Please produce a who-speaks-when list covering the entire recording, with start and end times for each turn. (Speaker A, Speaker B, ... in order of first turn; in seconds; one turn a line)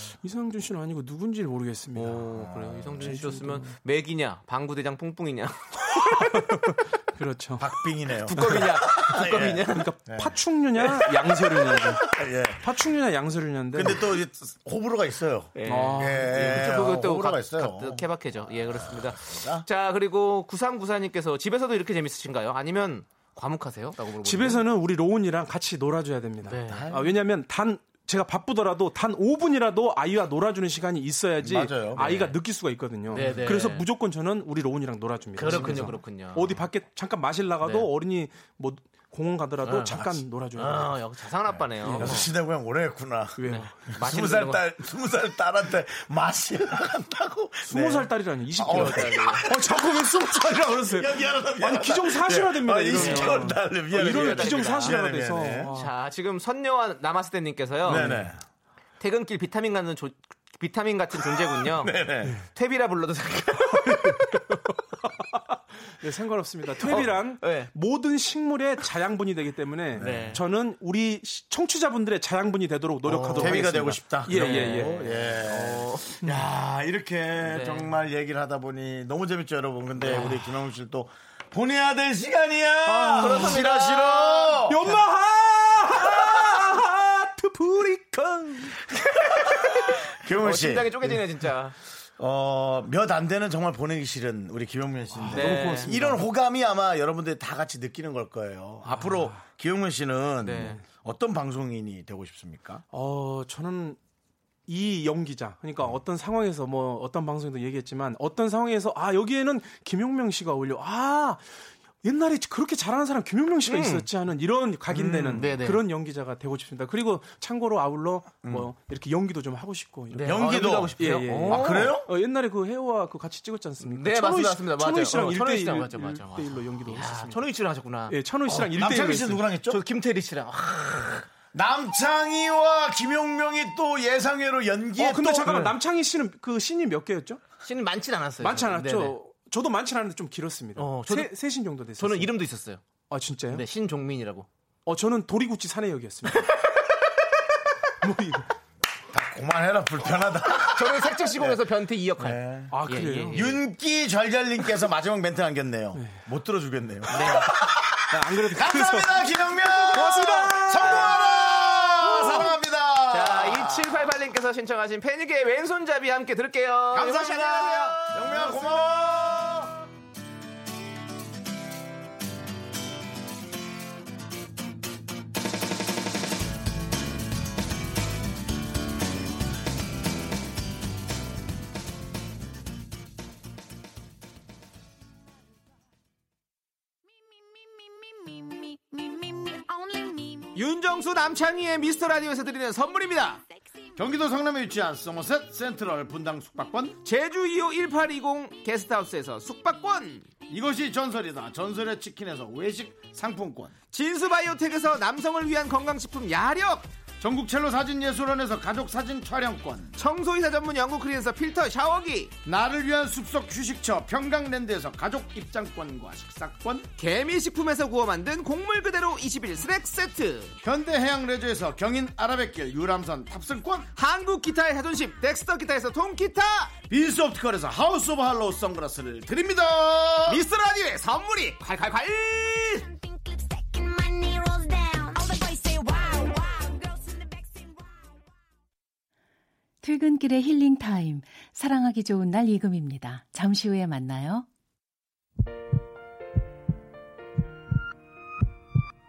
Speaker A: 0.1-2.4
Speaker B: 1.9-6.4
Speaker C: 2.3-3.0
Speaker A: 2.9-3.7
Speaker A: 6.2-7.7
Speaker C: 7.6-12.7
Speaker B: 8.2-9.9
Speaker A: 9.5-14.1
Speaker C: 13.7-19.6
Speaker B: 15.6-24.6
Speaker A: 15.6-16.9
Speaker A: 24.2-41.0
Speaker B: 26.4-26.9
Speaker C: 26.7-27.1
Speaker C: 31.4-32.0
Speaker B: 32.0-32.4
Speaker B: 33.1-33.8
Speaker B: 35.4-36.5
Speaker C: 35.4-35.9
Speaker B: 37.6-37.9
Speaker B: 39.6-42.3
Speaker C: 41.5-55.7
Speaker A: 41.8-42.2
Speaker A: 43.4-43.7
Speaker B: 43.4-44.6
Speaker A: 47.7-55.9
Speaker B: 48.7-49.5
Speaker B: 52.9-53.4
Speaker B: 53.9-54.9
Speaker B: 55.7-58.2
Speaker C: 57.8-58.4
Speaker A: 57.9-58.3
Speaker B: 59.0-64.6
Speaker C: 61.6-62.4
Speaker A: 65.5-75.3
Speaker B: 66.8-67.7
Speaker C: 69.9-70.4
Speaker B: 70.0-70.4
Speaker C: 73.0-84.9
Speaker B: 73.3-73.7
Speaker B: 74.3-76.1
Speaker B: 77.4-77.9
Speaker B: 80.0-80.2
Speaker A: 80.1-80.5
Speaker A: 82.8-83.7
Speaker B: 83.2-85.0
Speaker A: 84.6-89.0
Speaker B: 89.3-91.7
Speaker C: 89.5-91.2
Speaker C: 92.2-102.8
Speaker A: 95.1-96.2
Speaker B: 95.3-96.1
Speaker A: 98.8-99.4
Speaker B: 100.4-100.8
Speaker A: 102.9-104.0
Speaker A: 104.7-111.4
Speaker A: 112.0-127.4
Speaker B: 113.7-114.0
Speaker C: 114.9-115.4
Speaker B: 115.3-115.8
Speaker C: 118.4-118.7
Speaker B: 120.1-122.0
Speaker C: 120.2-122.1
Speaker B: 123.8-128.2
Speaker A: 128.1-129.5
Speaker C: 128.5-129.8
Speaker B: 129.7-131.3
Speaker C: 131.5-135.8
Speaker A: 134.9-137.4
Speaker B: 137.6-139.2
Speaker A: 138.4-142.3
Speaker B: 140.8-141.3
Speaker B: 141.9-142.8
Speaker A: 143.1-143.7
Speaker B: 143.5-144.5
Speaker A: 144.8-146.5
Speaker A: 148.0-148.5
Speaker C: 149.1-151.6
Speaker B: 150.6-153.6
Speaker C: 152.2-152.7
Speaker A: 152.7-153.5
Speaker C: 153.3-164.0
Speaker A: 155.9-156.2
Speaker B: 157.1-157.5
Speaker A: 158.0-161.2
Speaker B: 159.9-161.2
Speaker B: 162.0-162.5
Speaker A: 162.0-162.5
Speaker B: 163.1-168.7
Speaker C: 166.9-169.8
Speaker D: 188.1-190.5
Speaker B: 190.5-193.4
Speaker C: 193.9-197.0
Speaker B: 197.0-200.3
Speaker C: 200.5-203.7
Speaker B: 203.9-206.9
Speaker C: 207.2-210.0
Speaker B: 209.9-212.3
Speaker C: 212.4-216.9
Speaker B: 217.0-220.6
Speaker C: 220.6-223.9
Speaker B: 223.9-226.7
Speaker C: 226.9-230.4
Speaker B: 230.3-232.8
Speaker D: 232.8-238.2
Speaker E: 239.8-244.4